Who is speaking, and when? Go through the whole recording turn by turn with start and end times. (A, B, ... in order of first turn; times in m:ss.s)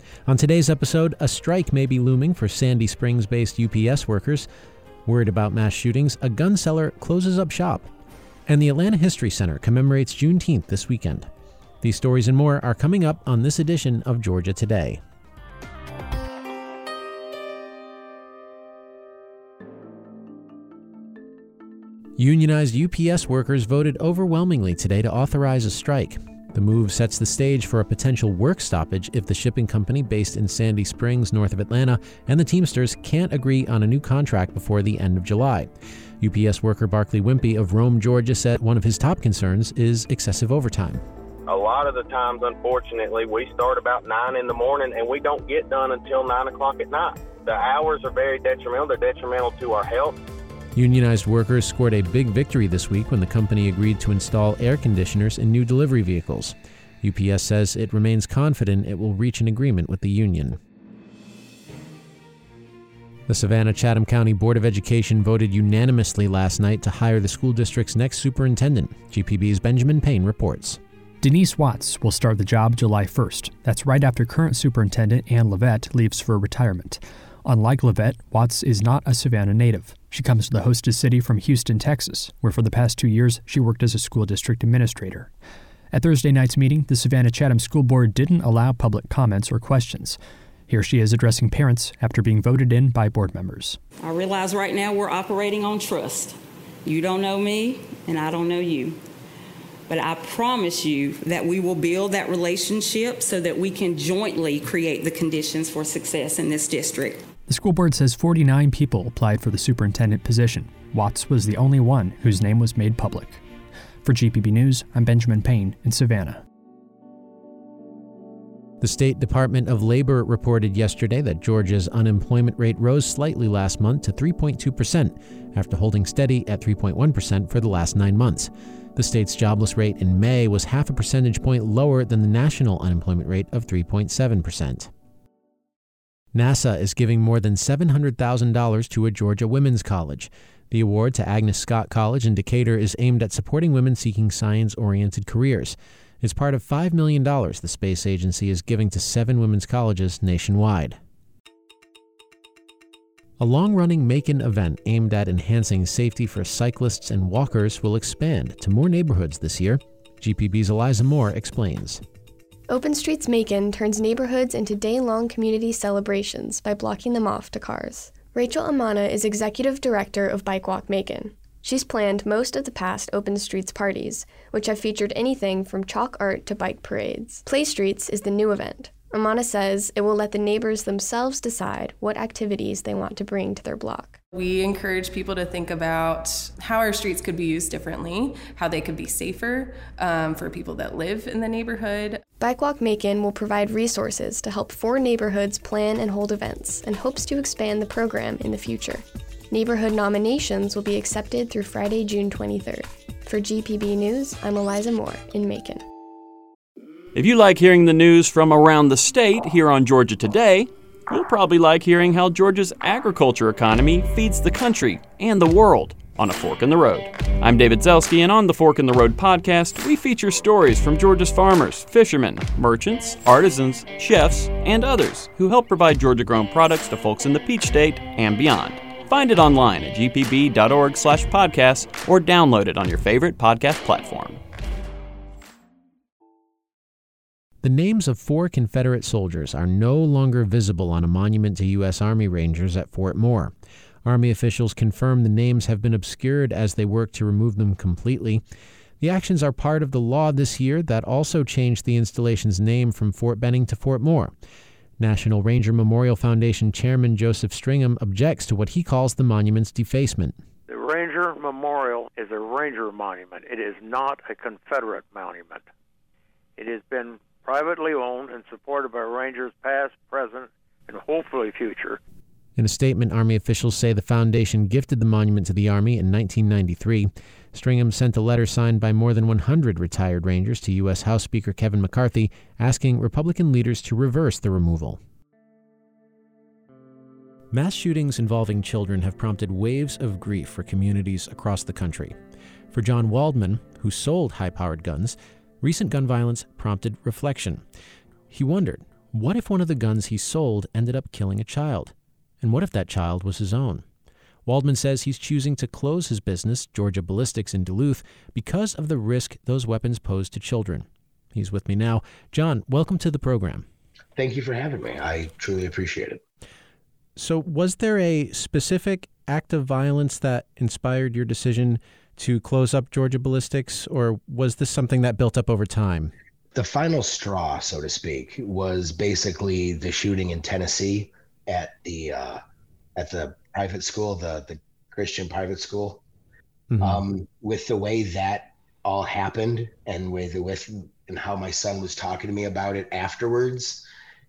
0:00.2-0:04.5 A
0:05.0-0:07.9 A
0:08.5-0:11.3 A
0:11.8-0:15.0 A
0:22.2-0:41.0 A
0:41.5-0:50.1 B
0:50.7-1:00.6 A
1:03.3-1:10.8 A
1:11.2-1:25.3 C
1:25.9-1:30.2 C
1:30.7-1:33.8 C
1:34.0-1:39.0 D
1:39.9-1:47.2 D
1:47.5-1:53.4 C
1:54.0-1:56.4 C
1:58.8-2:14.9 A
2:16.3-2:31.0 A
2:33.4-2:42.0 A
2:42.7-3:04.2 E
3:04.3-3:12.2 F
3:12.4-3:25.8 E
3:27.1-3:54.4 G
3:57.6-4:03.5 A
4:04.0-4:08.4 A
4:09.0-4:14.3 A
4:15.0-4:20.3 A
4:20.7-4:25.6 H
4:26.6-4:32.0 H
4:32.6-4:45.0 A
4:47.5-4:52.2 A
4:52.7-4:57.6 A
4:58.3-5:03.8 A
5:04.4-5:13.6 A
5:14.2-5:16.2 I
5:17.2-5:26.1 A
5:26.5-5:32.4 I
5:33.0-5:36.0 I
5:36.7-5:37.0 A
5:36.8-5:43.8 I